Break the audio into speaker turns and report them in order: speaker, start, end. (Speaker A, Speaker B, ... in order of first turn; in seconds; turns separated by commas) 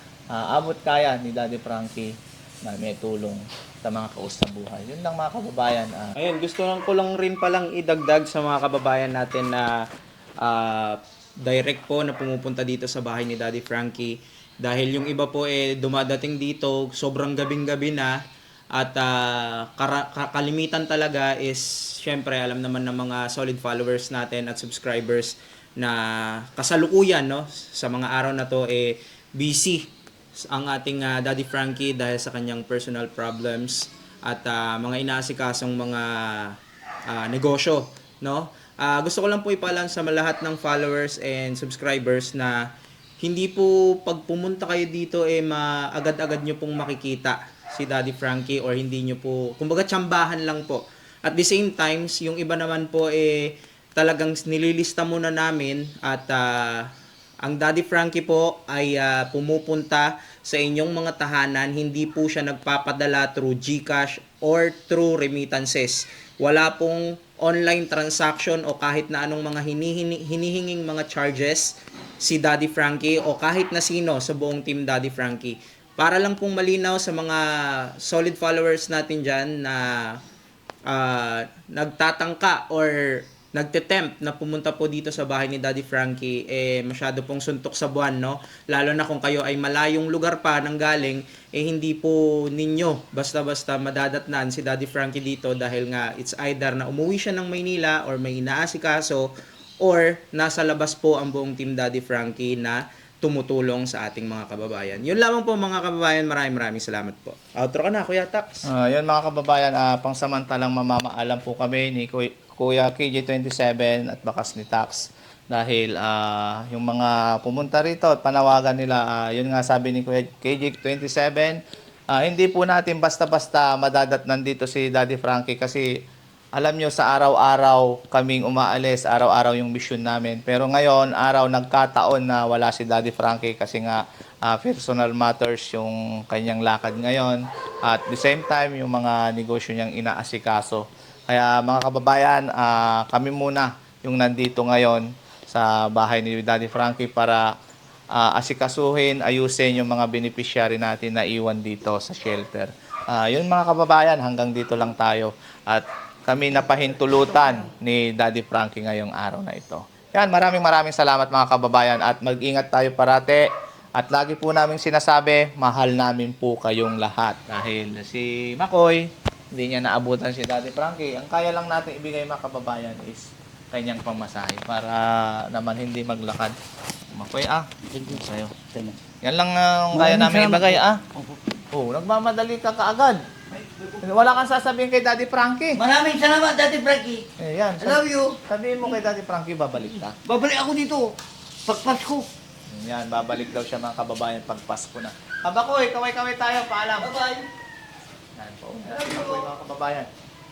Speaker A: 0.3-2.1, Speaker A: 2.6-6.1, Speaker B: 6.2-9.8, Speaker B: 10.4-18.2, Speaker B: 18.7-29.9, Speaker B: 30.4-42.6, Speaker B: 43.2-56.9, Speaker B: 57.4-80.2, Speaker B: 80.9-99.3, Speaker B: 99.8-108.7, Speaker A: 108.6-121.6, Speaker A: 122.1-125.9, Speaker A: 126.5-147.5, Speaker A: 148.1-176.5, Speaker A: 177.1-178.5, Speaker C: 177.8-179.0, Speaker A: 179.2-181.0, Speaker C: 179.9-181.4, Speaker A: 181.7-183.2, Speaker C: 183.5-184.3, Speaker A: 184.0-185.8, Speaker C: 185.8-187.2, Speaker A: 187.4-190.2, Speaker C: 187.8-188.4, Speaker C: 190.2-191.1, Speaker C: 191.7-192.3, Speaker A: 192.7-197.1, Speaker C: 197.0-197.5, Speaker A: 198.3-200.1, Speaker C: 198.9-199.5